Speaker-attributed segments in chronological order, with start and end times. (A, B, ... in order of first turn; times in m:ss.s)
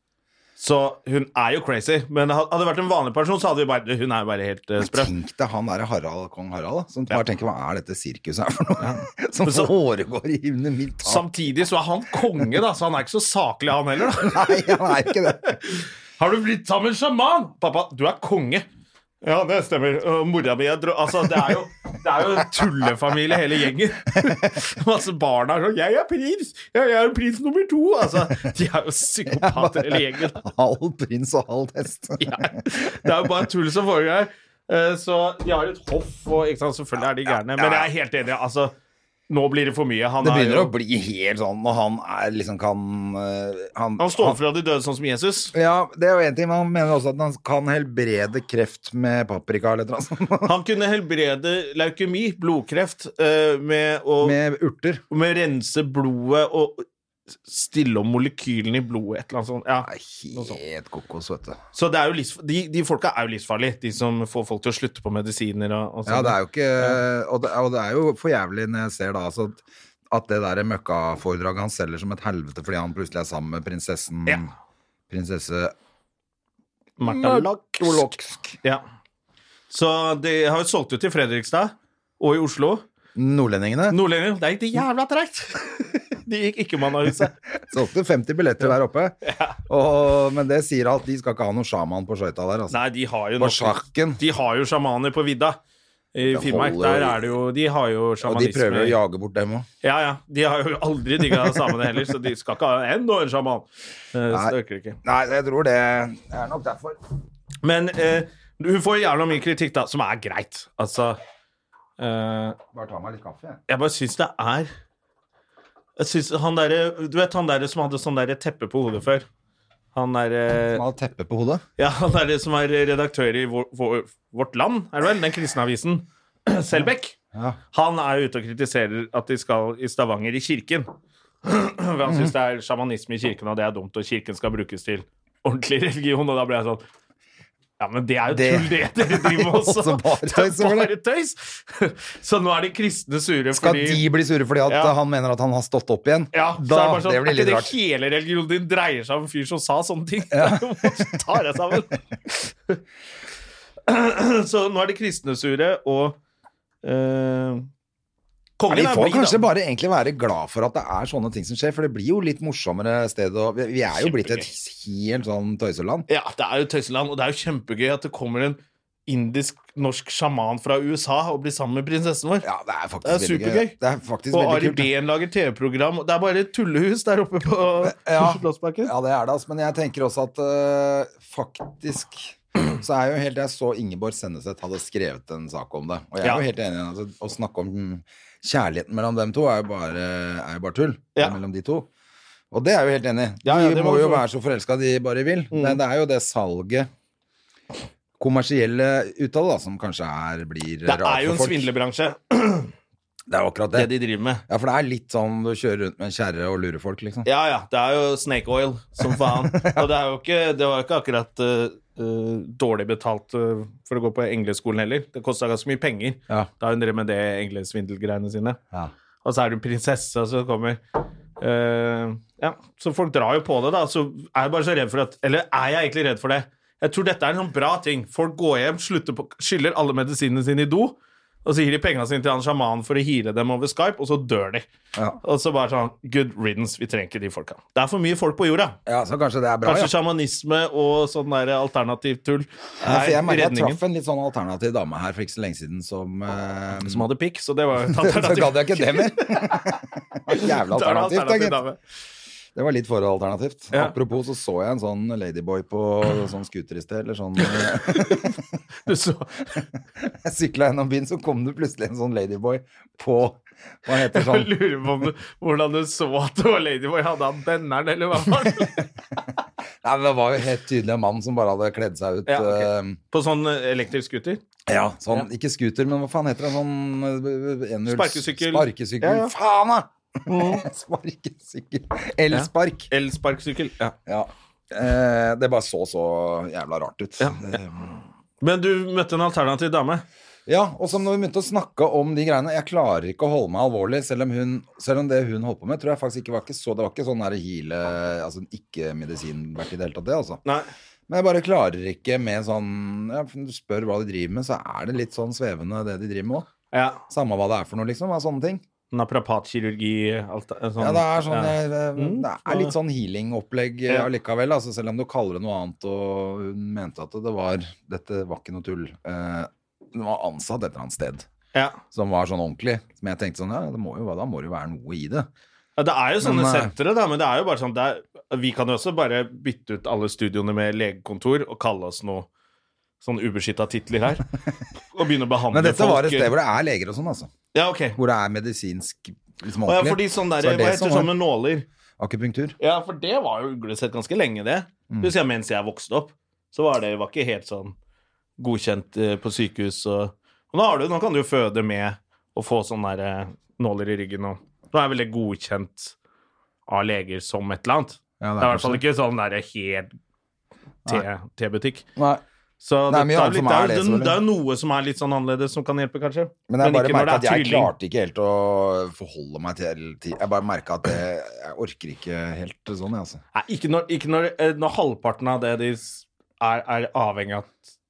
0:00.6-0:05.1 A
0:04.8-0:11.3 B
0:08.8-0:09.7 A
0:11.0-0:18.6 A
0:14.2-0:15.6 B
0:19.2-0:30.4 A
0:24.1-0:24.6 B
0:29.3-0:33.1 B
0:32.2-0:38.7 A
0:37.2-0:37.9 B
0:39.3-0:40.7 A
0:40.2-0:44.4 B
0:44.0-0:45.5 A
0:45.5-0:50.5 B
0:50.4-0:54.4 A
0:54.2-0:55.0 B
0:55.1-0:56.8 A
0:57.4-1:00.6 A
0:59.8-1:01.6 B
1:01.7-1:07.0 A
1:06.0-1:14.5 B
1:15.1-1:15.7 B
1:17.0-1:18.8 A
1:17.0-1:18.6 B
1:19.7-1:22.8 A
1:23.1-1:24.0 B
1:23.9-1:27.3 A
1:27.7-1:29.1 B
1:29.2-1:29.6 A
1:29.7-1:32.8 B
1:32.7-1:35.6 A
1:33.4-1:34.2 B
1:36.1-1:39.0 A
1:36.3-1:37.3 B
1:38.2-1:39.7 B
1:39.8-1:45.0 A
1:44.3-1:47.0 B
1:47.6-1:51.2 A
1:52.0-1:52.6 A
1:52.7-1:53.6 B
1:53.7-1:54.7 A
1:56.0-1:59.2 A
1:59.9-2:00.8 A
2:00.7-2:01.6 B
2:01.8-2:07.2 A
2:07.3-2:07.6 B
2:07.7-2:10.9 A
2:11.4-2:16.8 A
2:12.0-2:12.3 B
2:17.8-2:24.0 A
2:18.3-2:20.9 B
2:23.5-2:27.7 B
2:24.7-2:24.9 A
2:26.3-2:32.8 A
2:30.3-2:31.2 B
2:33.9-2:36.2 A
2:36.8-2:37.7 A
2:38.6-2:39.4 A
2:38.7-2:46.1 B
2:44.0-2:44.5 A
2:46.1-2:52.4 A
2:52.4-2:54.9 B
2:53.0-2:53.8 A
2:54.3-2:58.9 A
2:57.8-3:11.9 B
3:12.5-3:16.9 B
3:13.4-3:14.2 A
3:15.5-3:15.8 A
3:18.2-3:21.7 B
3:20.8-3:22.7 A
3:23.3-3:23.9 B
3:23.7-3:24.4 A
3:24.5-3:27.2 B
3:27.2-3:38.6 A
3:29.0-3:29.9 B
3:39.2-3:40.8 A
3:41.4-3:54.6 A
3:55.2-3:58.8 A
3:58.8-3:59.9 B
3:59.6-4:03.8 A
4:02.8-4:07.0 B
4:06.8-4:09.7 A
4:07.8-4:11.6 B
4:10.3-4:11.8 A
4:12.5-4:18.4 B
4:17.4-4:18.3 A
4:18.8-4:19.6 A
4:20.0-4:24.5 B
4:23.9-4:28.9 A
4:29.8-4:33.0 B
4:32.2-4:34.4 A
4:34.7-4:42.9 B
4:37.8-4:39.3 A
4:40.3-4:40.7 A
4:42.3-4:43.9 A
4:44.1-4:47.8 B
4:47.2-4:47.6 A
4:48.4-4:50.0 A
4:50.5-5:00.4 B
5:00.4-5:00.7 A
5:01.1-5:06.5 B
5:06.7-5:07.0 A
5:07.1-5:08.6 B
5:08.9-5:12.7 A
5:10.8-5:21.2 B
5:21.5-5:21.8 A
5:21.9-5:25.3 B
5:25.8-5:32.3 A
5:26.2-5:26.7 B
5:33.0-5:34.3 A
5:34.9-5:36.3 A
5:35.5-5:37.3 B
5:37.5-5:38.0 A
5:37.9-5:41.1 B
5:39.6-5:41.6 A
5:42.0-5:42.6 B
5:42.6-5:47.7 A
5:48.4-5:55.9 A
5:56.7-5:59.9 A
5:58.2-5:58.8 B
6:00.9-6:01.8 A
6:02.0-6:02.2 B
6:02.6-6:07.7 A
6:02.9-6:04.2 B
6:06.5-6:13.2 B
6:13.3-6:17.5 A